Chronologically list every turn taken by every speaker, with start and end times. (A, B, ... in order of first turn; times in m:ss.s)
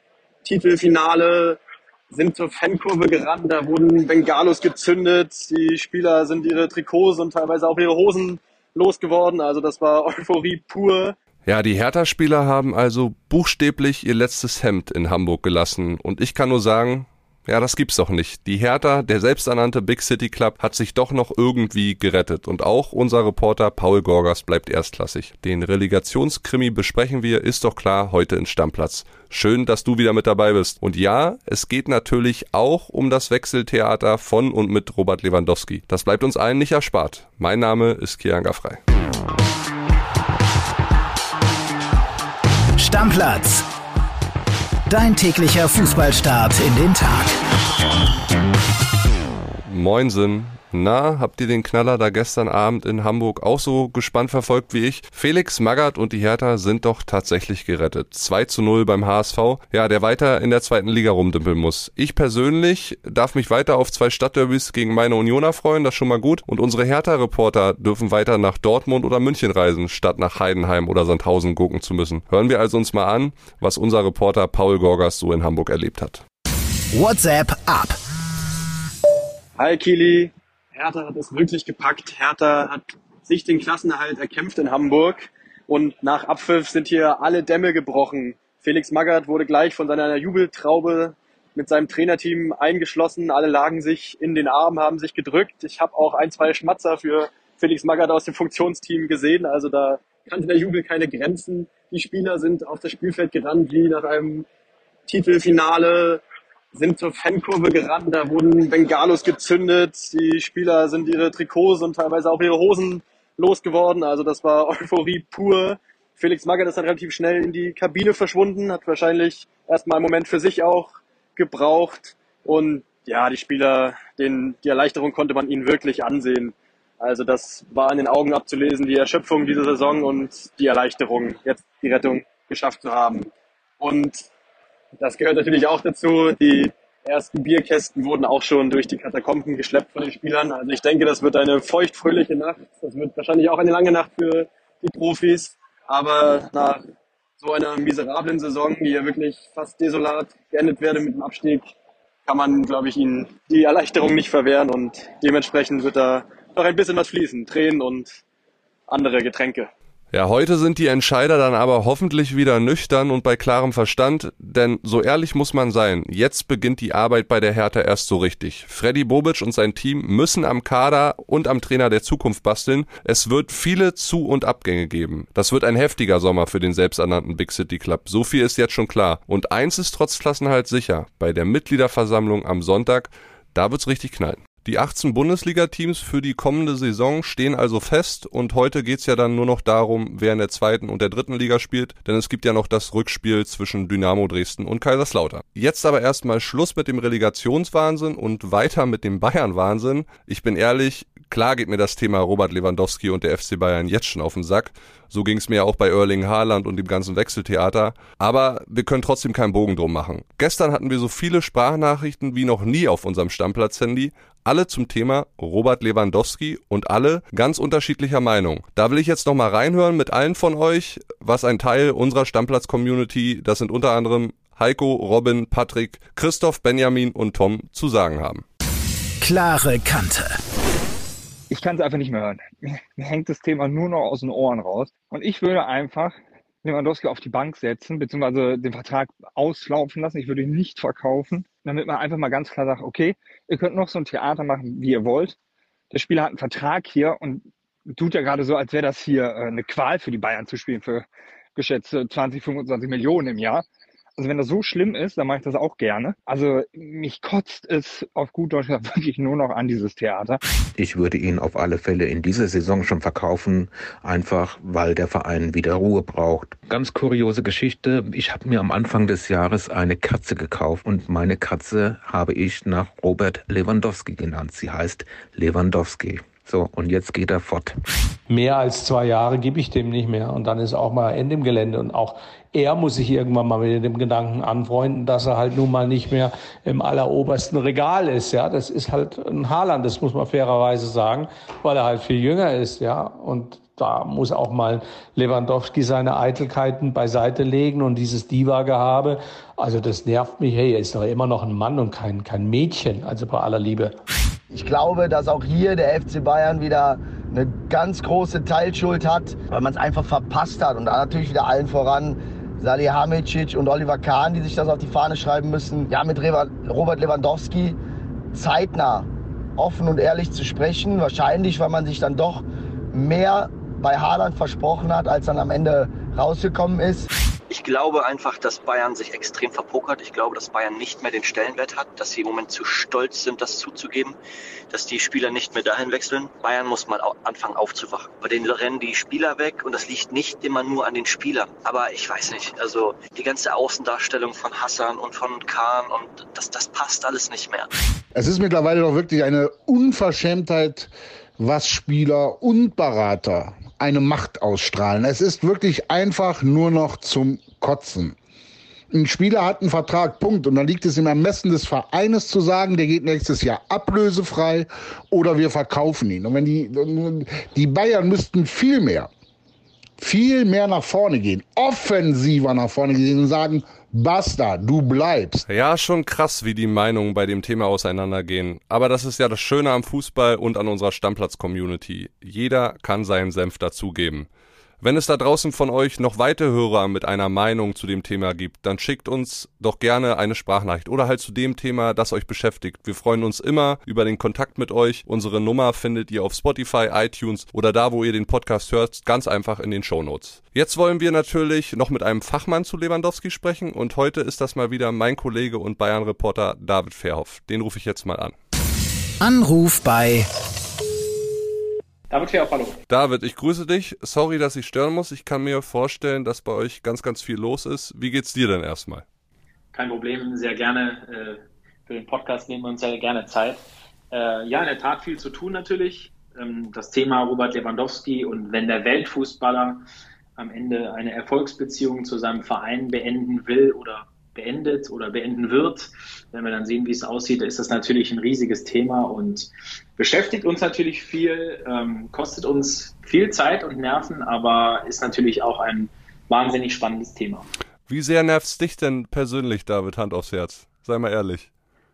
0:00.4-0:01.6 A
0:02.1-0:11.1 A
0:11.4-0:38.8 B
0:42.8-0:43.6 C
0:44.9-0:47.3 C
0:49.6-1:16.2 B
1:17.0-1:17.9 C
1:19.6-1:44.4 A
1:45.1-1:46.2 A
1:46.7-2:14.3 A
2:15.0-2:26.8 A
2:27.4-2:31.7 A
2:32.3-2:38.2 A
2:38.9-2:39.7 A
2:40.1-3:48.4 B
3:49.2-3:50.2 C
3:51.5-4:05.3 D
4:05.9-4:13.6 D
4:14.2-4:20.4 D
4:20.8-4:37.7 E
4:38.3-5:03.9 F
5:04.5-5:17.8 G
5:18.3-5:27.1 G
5:27.5-5:34.2 H
5:34.7-5:47.7 H
5:48.1-5:58.1 I
5:58.9-6:09.1 I
6:10.0-6:15.4 I
6:15.5-6:24.3 B
6:24.8-6:48.4 B
6:49.2-6:50.2 C
6:52.1-6:52.8 J
6:52.9-6:59.0 B
6:59.7-7:09.8 J
7:10.4-7:27.4 J
7:27.9-7:31.5 B